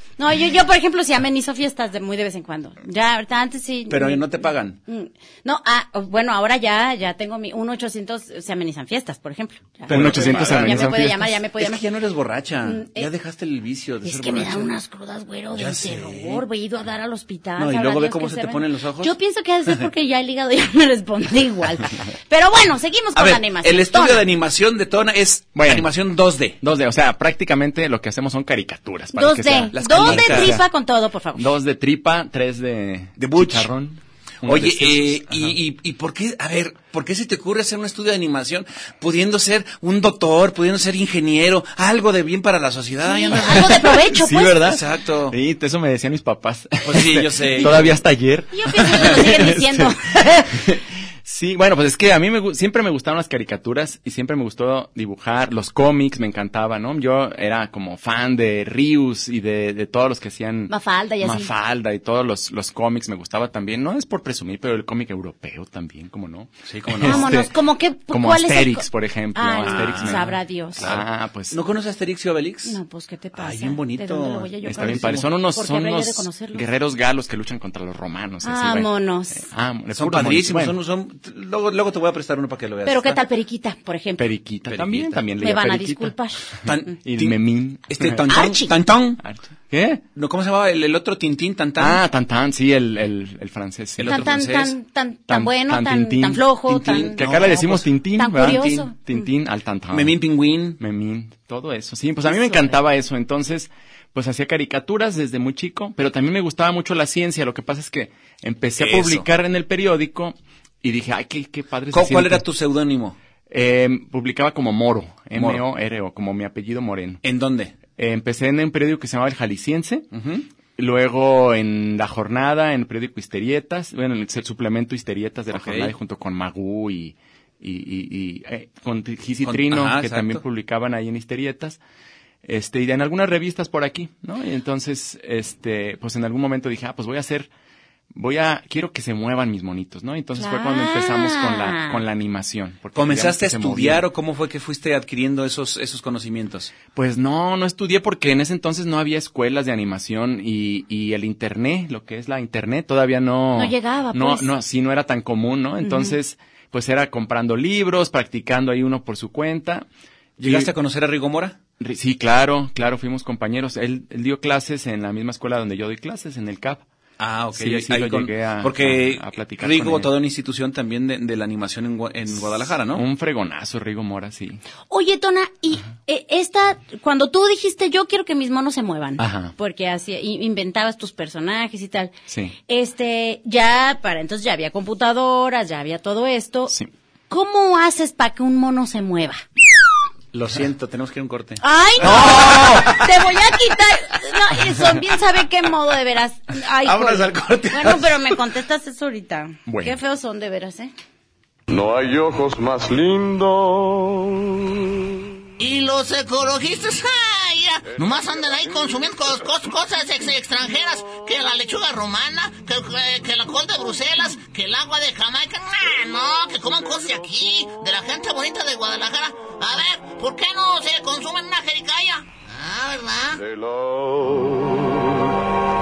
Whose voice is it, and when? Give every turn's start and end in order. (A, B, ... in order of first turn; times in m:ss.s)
0:00.2-0:11.8 A
0:03.9-0:04.8 B
0:09.9-0:14.7 B
0:09.9-0:11.4 C
0:12.6-0:13.1 A
0:14.0-0:24.2 A
0:15.5-0:16.4 B
0:17.6-0:19.1 B
0:23.2-0:26.6 B
0:25.6-0:25.9 C
0:26.6-0:30.6 C
0:29.2-0:31.5 A
0:29.7-0:30.6 B
0:31.4-0:35.6 C
0:33.2-0:33.7 B
0:34.4-0:44.0 B
0:43.0-0:44.7 A
0:43.6-1:07.5 C
0:44.6-0:45.4 B
0:46.8-0:48.0 B
0:48.5-0:50.5 A
1:00.7-1:01.5 A
1:06.7-1:07.4 B
1:07.0-1:10.8 A
1:08.1-1:11.6 C
1:09.7-1:12.8 B
1:12.6-1:16.7 A
1:13.4-1:15.3 B
1:14.6-1:20.8 C
1:18.4-1:19.5 A
1:19.9-1:23.2 B
1:22.9-1:24.3 A
1:24.2-1:26.1 C
1:24.7-1:25.2 B
1:25.4-1:26.5 A
1:26.6-1:28.2 C
1:26.7-1:29.2 B
1:28.3-1:28.7 A
1:29.2-1:30.0 C
1:30.2-1:32.0 B
1:31.8-1:34.4 C
1:34.0-1:34.7 B
1:34.1-1:37.2 A
1:35.3-1:40.2 C
1:36.7-1:37.9 B
1:38.2-1:39.2 A
1:38.4-1:38.7 B
1:39.9-1:40.8 B
1:40.8-1:52.4 C
1:42.3-1:42.8 A
1:48.8-1:49.3 B
1:51.9-1:53.2 B
1:53.5-1:57.2 C
1:55.3-1:55.6 B
1:57.2-1:57.7 B
1:58.0-2:00.1 C
2:00.1-2:00.5 B
2:00.8-2:11.8 C
2:05.5-2:05.9 B
2:09.4-2:10.4 B
2:12.4-2:17.5 C
2:18.1-2:24.0 C
2:20.4-2:22.0 A
2:23.0-2:26.7 B
2:26.9-2:39.9 C
2:33.6-2:34.5 A
2:35.8-2:36.2 A
2:40.4-2:40.7 C
2:40.4-2:41.6 B
2:41.8-2:46.8 C
2:47.2-2:53.0 B
2:47.5-2:50.1 C
2:52.9-2:54.6 C
2:54.9-3:02.1 A
2:59.2-2:59.5 C
3:02.3-3:02.6 C
3:02.7-3:06.7 A
3:07.3-3:09.4 A
3:10.3-3:13.1 B
3:11.6-3:20.9 A
3:12.0-3:12.8 C
3:16.8-3:18.4 B
3:19.7-3:20.0 C
3:21.7-3:24.7 D
3:25.6-3:43.4 E
3:43.4-3:45.1 D